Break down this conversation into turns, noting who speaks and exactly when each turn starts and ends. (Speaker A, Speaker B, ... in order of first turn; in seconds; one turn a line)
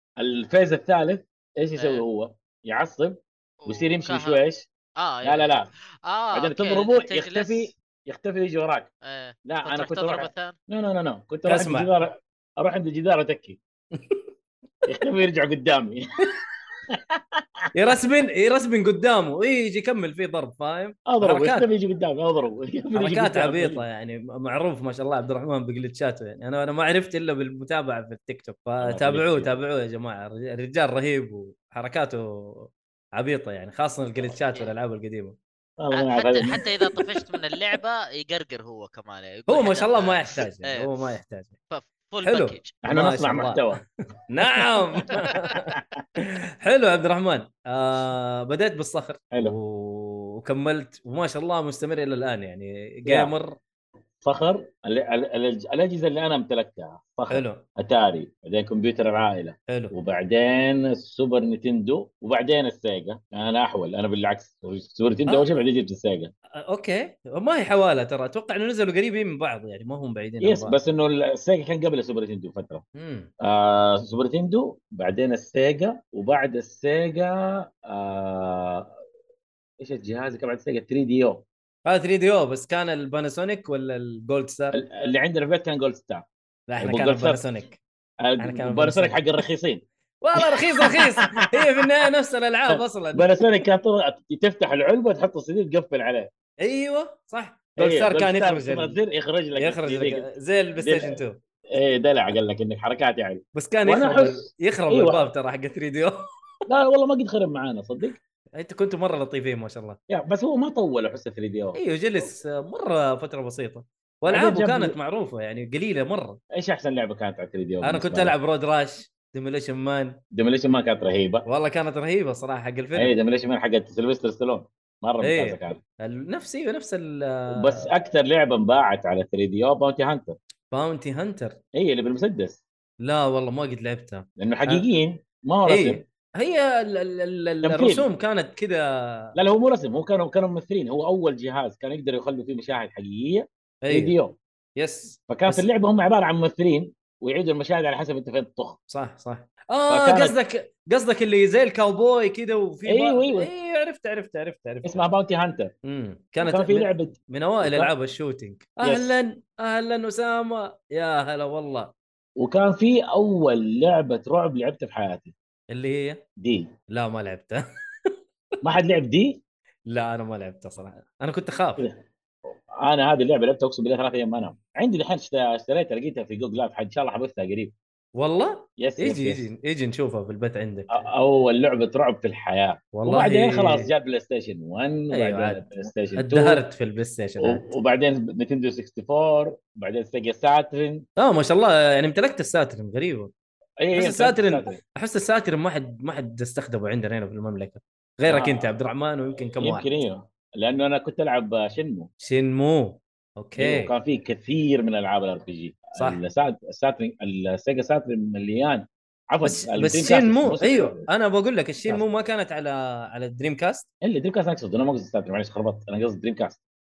Speaker A: 0.2-4.7
Speaker B: 1.8-2.0
Speaker B: 3.6-4.4
Speaker B: 5.0-7.7
Speaker A: 5.2-5.7
Speaker A: 6.3-8.9
Speaker B: 9.0-10.6
Speaker A: 9.5-13.6
Speaker C: 11.5-11.9
Speaker C: 14.0-14.2
Speaker A: 14.9-16.0
Speaker A: 16.9-17.4
Speaker C: 17.7-21.7
Speaker A: 21.1-23.8
Speaker C: 22.9-35.4
Speaker A: 28.8-29.5
Speaker A: 35.8-36.6
Speaker B: 35.9-40.9
Speaker C: 39.5-41.5
Speaker B: 41.7-42.8
Speaker C: 42.2-53.6
Speaker A: 42.8-43.8
Speaker A: 53.1-53.3
Speaker A: 54.2-66.3
Speaker C: 57.3-57.6
Speaker C: 66.7-70.8
Speaker A: 70.4-72.8
Speaker C: 73.0-73.3
Speaker A: 73.4-78.9
Speaker A: 79.8-81.5
Speaker C: 81.8-84.8
Speaker A: 84.7-86.3
Speaker C: 86.7-87.8
Speaker A: 86.8-87.4
Speaker A: 88.2-89.8
Speaker C: 88.4-89.2
Speaker C: 90.2-93.3
Speaker A: 90.8-91.1
Speaker A: 92.7-96.3
Speaker C: 96.6-99.0
Speaker A: 97.8-101.2
Speaker C: 99.5-101.4
Speaker A: 101.7-105.2
Speaker C: 103.5-106.3
Speaker A: 106.7-108.2
Speaker C: 108.6-110.0
Speaker A: 110.1-111.8
Speaker C: 111.8-116.4
Speaker A: 114.3-115.0
Speaker A: 116.5-118.3
Speaker C: 117.8-120.2
Speaker A: 120.3-121.5
Speaker C: 121.5-123.2
Speaker A: 123.0-125.8
Speaker C: 125.2-127.9
Speaker A: 127.5-130.4
Speaker C: 130.7-131.6
Speaker A: 131.8-132.6
Speaker C: 133.0-134.8
Speaker A: 134.4-136.0
Speaker C: 135.7-138.8
Speaker A: 137.6-138.1
Speaker A: 139.4-144.4
Speaker C: 143.8-144.2
Speaker C: 144.8-145.7
Speaker A: 145.3-148.8
Speaker C: 148.9-155.0
Speaker A: 149.9-150.4
Speaker A: 152.9-153.5
Speaker A: 154.8-155.7
Speaker C: 155.8-161.9
Speaker A: 156.4-157.9
Speaker A: 158.8-159.2
Speaker A: 162.4-165.3
Speaker C: 165.7-166.2
Speaker A: 166.4-166.7
Speaker C: 166.9-167.6
Speaker A: 168.6-169.4
Speaker C: 169.9-171.9
Speaker A: 171.8-177.7
Speaker C: 178.2-180.9
Speaker A: 178.8-179.5
Speaker A: 180.9-186.6
Speaker C: 182.9-183.9
Speaker C: 185.1-187.7
Speaker A: 187.4-191.1
Speaker C: 191.2-193.3
Speaker A: 193.8-194.8
Speaker C: 193.9-199.9
Speaker A: 198.3-198.7
Speaker A: 199.5-202.1
Speaker C: 202.2-203.9
Speaker A: 203.6-211.1
Speaker C: 206.0-206.2
Speaker C: 209.4-213.9
Speaker A: 214.0-216.6